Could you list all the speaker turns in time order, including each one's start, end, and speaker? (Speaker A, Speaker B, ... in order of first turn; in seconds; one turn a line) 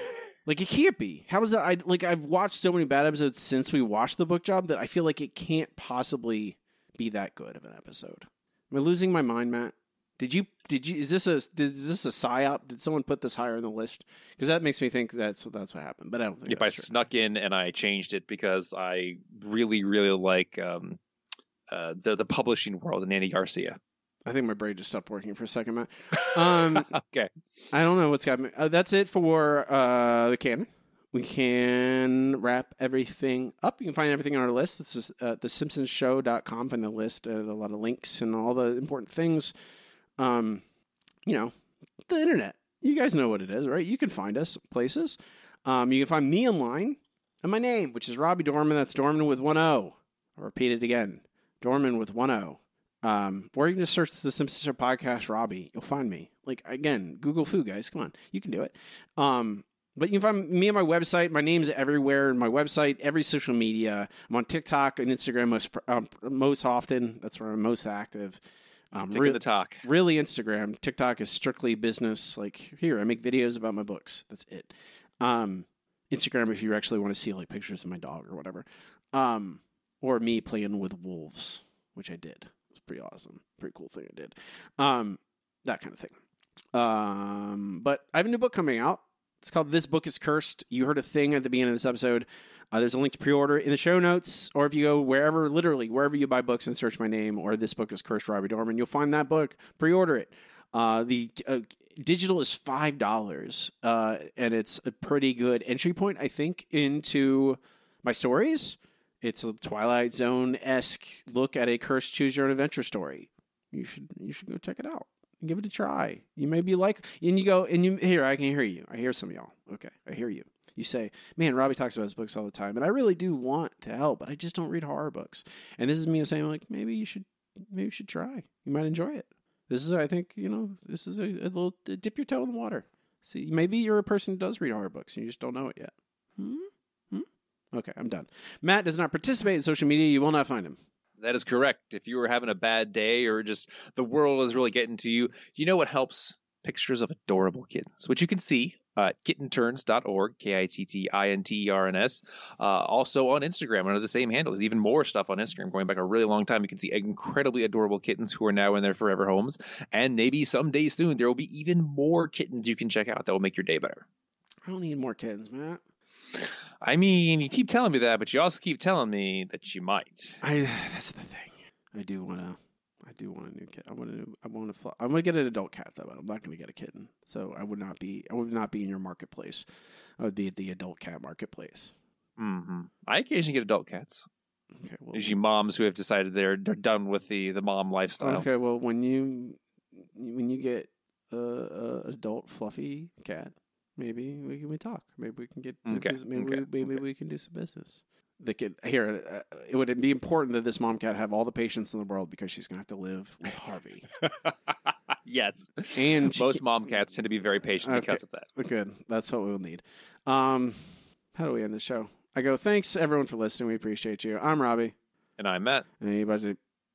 Speaker A: 0.5-16.9
Speaker B: 16.5-21.0
Speaker B: 21.7-23.8
Speaker A: 24.2-26.9
Speaker B: 26.2-27.3
Speaker A: 27.7-39.5
Speaker A: 40.2-40.6
Speaker A: 41.2-41.5
Speaker A: 42.1-68.4
Speaker A: 68.9-86.1
Speaker B: 69.0-69.8
Speaker A: 86.7-140.8
Speaker B: 141.2-164.0
Speaker A: 164.7-165.8
Speaker B: 166.8-170.4
Speaker A: 170.4-179.6
Speaker A: 180.2-181.9
Speaker B: 182.4-184.2
Speaker A: 184.8-185.4
Speaker B: 185.1-188.4
Speaker A: 188.2-204.1
Speaker B: 195.8-197.0
Speaker B: 204.2-208.5
Speaker A: 205.9-206.6
Speaker A: 207.8-214.9
Speaker B: 215.4-215.8
Speaker A: 216.0-216.6